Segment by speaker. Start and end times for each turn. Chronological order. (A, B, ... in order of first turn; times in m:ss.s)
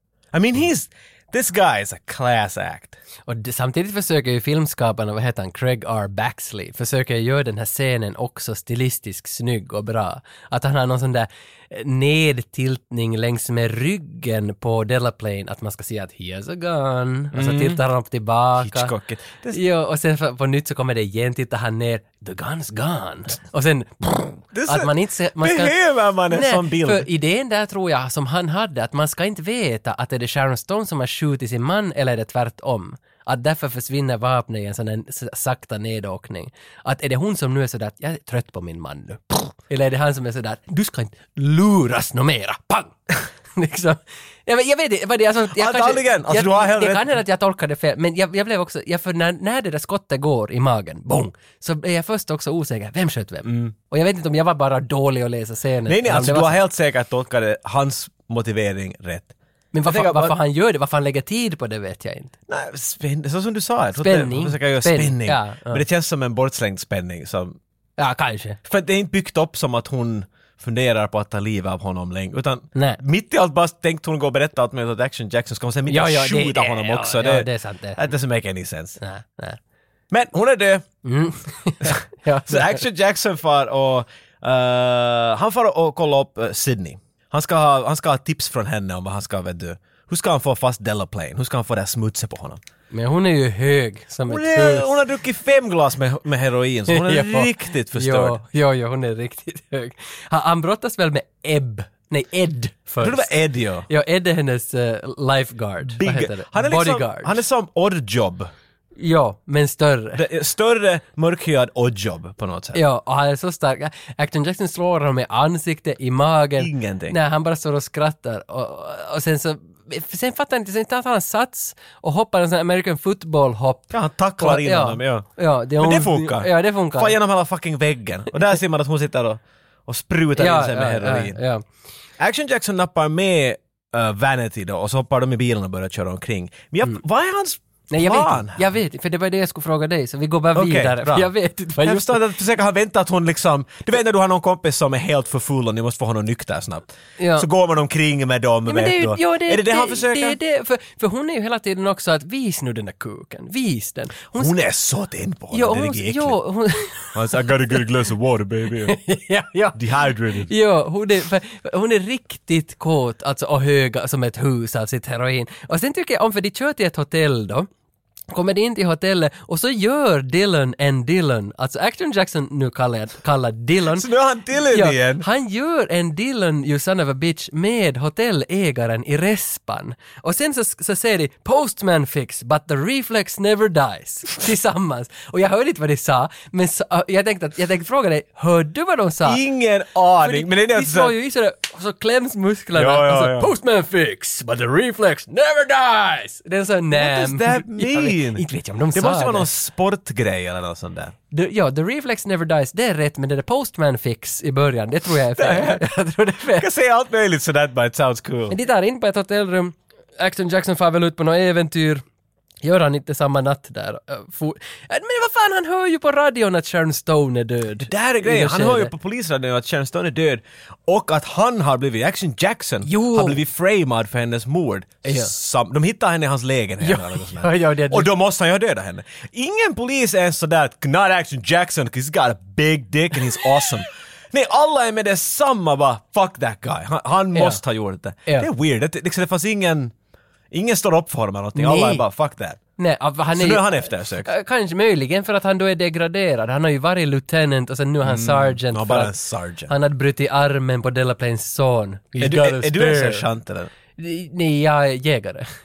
0:00.3-0:03.0 A
0:03.3-0:18.9 B
0:17.3-0:17.8 A
0:18.6-0:19.6 A
0:19.5-0:25.7 B
0:24.5-0:27.1 A
0:26.3-0:43.0 B
0:43.5-0:56.6 B
0:45.5-0:47.2 A
0:53.4-0:53.7 A
0:55.9-0:59.3 A
0:59.7-1:02.3 B
0:59.8-1:00.3 A
1:02.5-1:07.6 A
1:04.0-1:05.8 B
1:08.0-1:08.6 B
1:08.6-1:19.0 A
1:12.7-1:13.0 B
1:15.9-1:18.0 B
1:19.0-1:19.6 B
1:20.1-1:20.9 A
1:21.0-1:22.8 B
1:21.8-1:32.6 A
1:32.9-1:34.9 B
1:34.3-1:38.4 A
1:36.9-1:43.3 B
1:43.0-1:43.8 A
1:43.9-1:47.4 B
1:45.9-1:48.5 A
1:49.0-1:50.2 B
1:50.1-1:52.8 A
1:52.7-2:07.1 B
1:56.6-1:57.2 A
2:03.9-2:11.4 A
2:10.4-2:11.6 B
2:12.2-2:18.7 A
2:17.9-2:22.2 B
2:20.5-2:30.4 A
2:27.2-2:27.5 B
2:28.7-2:34.5 B
2:34.3-2:36.4 A
2:35.5-2:37.2 B
2:37.1-2:39.0 A
2:38.9-2:39.8 B
2:39.7-2:40.5 A
2:40.4-2:47.7 B
2:48.3-3:09.4 B
2:53.9-2:55.3 A
3:09.2-3:11.2 A
3:10.2-3:19.5 B
3:12.7-3:13.5 A
3:16.9-3:21.1 A
3:21.3-3:26.7 B
3:25.3-3:25.8 A
3:26.5-3:28.5 A
3:28.5-3:32.0 B
3:32.6-3:38.9 B
3:37.8-3:59.9 A
3:42.8-3:43.4 B
3:45.0-3:45.3 B
3:46.8-3:48.1 B
3:57.3-3:57.6 B
4:00.5-4:02.6 A
4:01.6-4:02.0 B
4:02.8-4:09.1 B
4:03.3-4:04.3 A
4:08.0-4:09.7 A
4:09.7-4:13.2 B
4:12.2-4:13.7 A
4:14.0-4:15.5 B